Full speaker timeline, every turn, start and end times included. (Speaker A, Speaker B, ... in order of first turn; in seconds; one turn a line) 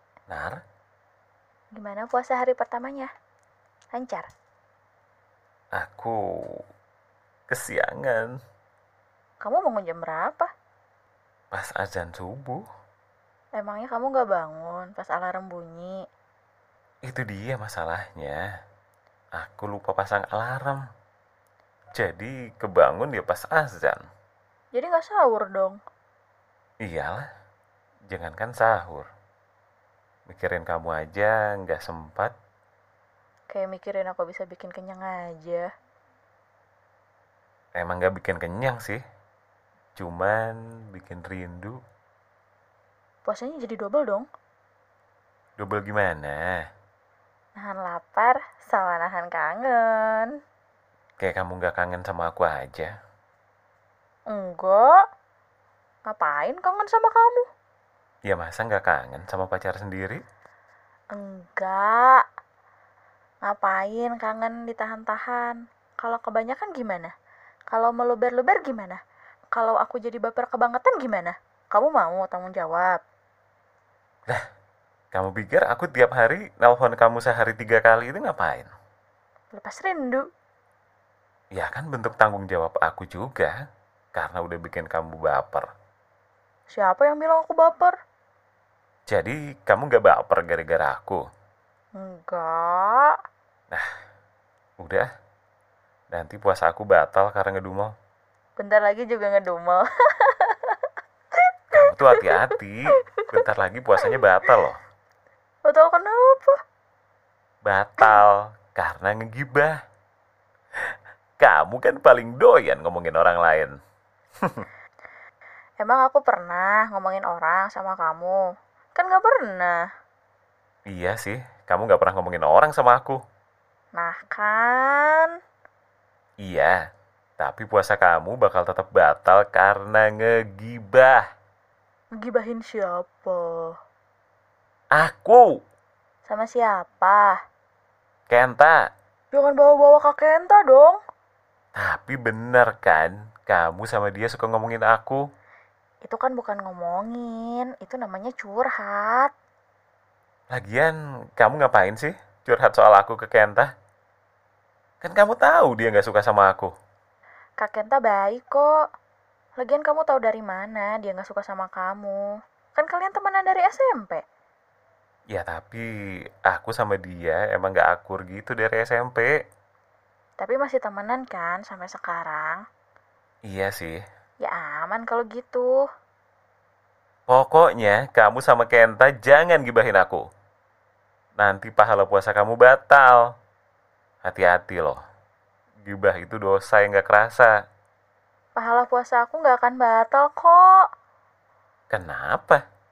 Speaker A: 0.3-0.6
Speaker B: 1.8-3.1
Speaker B: 3.9-4.3
Speaker A: 5.7-6.6
Speaker A: 7.5-8.3
Speaker B: 9.4-10.5
Speaker A: 11.5-12.6
Speaker B: 13.6-16.0
Speaker A: 17.1-18.4
Speaker A: 19.4-20.8
Speaker A: 21.9-24.0
Speaker B: 24.7-25.8
Speaker A: 26.8-27.3
Speaker A: 28.1-29.1
Speaker A: 30.3-32.3
Speaker B: 33.5-35.7
Speaker A: 37.8-39.0
Speaker A: 40.0-41.8
Speaker B: 43.2-44.3
Speaker A: 45.6-46.6
Speaker B: 47.6-50.3
Speaker A: 51.2-52.9
Speaker B: 54.3-54.9
Speaker B: 56.1-57.5
Speaker A: 58.3-60.2
Speaker B: 61.1-62.2
Speaker B: 63.5-67.1
Speaker B: 67.7-69.0
Speaker B: 69.5-73.0
Speaker A: 75.1-78.7
Speaker B: 79.6-80.3
Speaker A: 81.5-83.6
Speaker A: 84.2-85.7
Speaker B: 86.7-88.0
Speaker A: 89.1-91.2
Speaker B: 92.0-93.2
Speaker A: 94.8-95.1
Speaker A: 96.1-97.9
Speaker B: 98.6-100.8
Speaker B: 101.7-102.5
Speaker A: 101.7-104.8
Speaker B: 105.7-106.6
Speaker A: 107.6-109.7
Speaker A: 111.4-113.7
Speaker A: 114.4-114.7
Speaker B: 115.8-118.4
Speaker B: 119.0-119.8
Speaker A: 120.9-123.2
Speaker B: 124.0-125.3
Speaker A: 126.4-126.8
Speaker A: 127.4-131.2
Speaker B: 132.2-133.8
Speaker A: 134.9-135.5
Speaker B: 136.3-137.4
Speaker A: 138.3-138.8
Speaker B: 139.3-141.0
Speaker A: 141.8-145.2
Speaker B: 146.0-149.3
Speaker A: 150.5-153.7
Speaker A: 155.0-156.7
Speaker B: 157.6-158.7
Speaker B: 159.6-162.2
Speaker B: 162.8-164.2
Speaker A: 165.3-165.8
Speaker A: 166.5-169.3
Speaker B: 170.4-172.6
Speaker A: 173.5-174.0
Speaker B: 174.4-175.7
Speaker A: 177.3-180.2
Speaker A: 181.4-183.2
Speaker A: 184.2-185.0
Speaker A: 185.8-187.5
Speaker B: 188.6-190.8
Speaker A: 191.9-192.6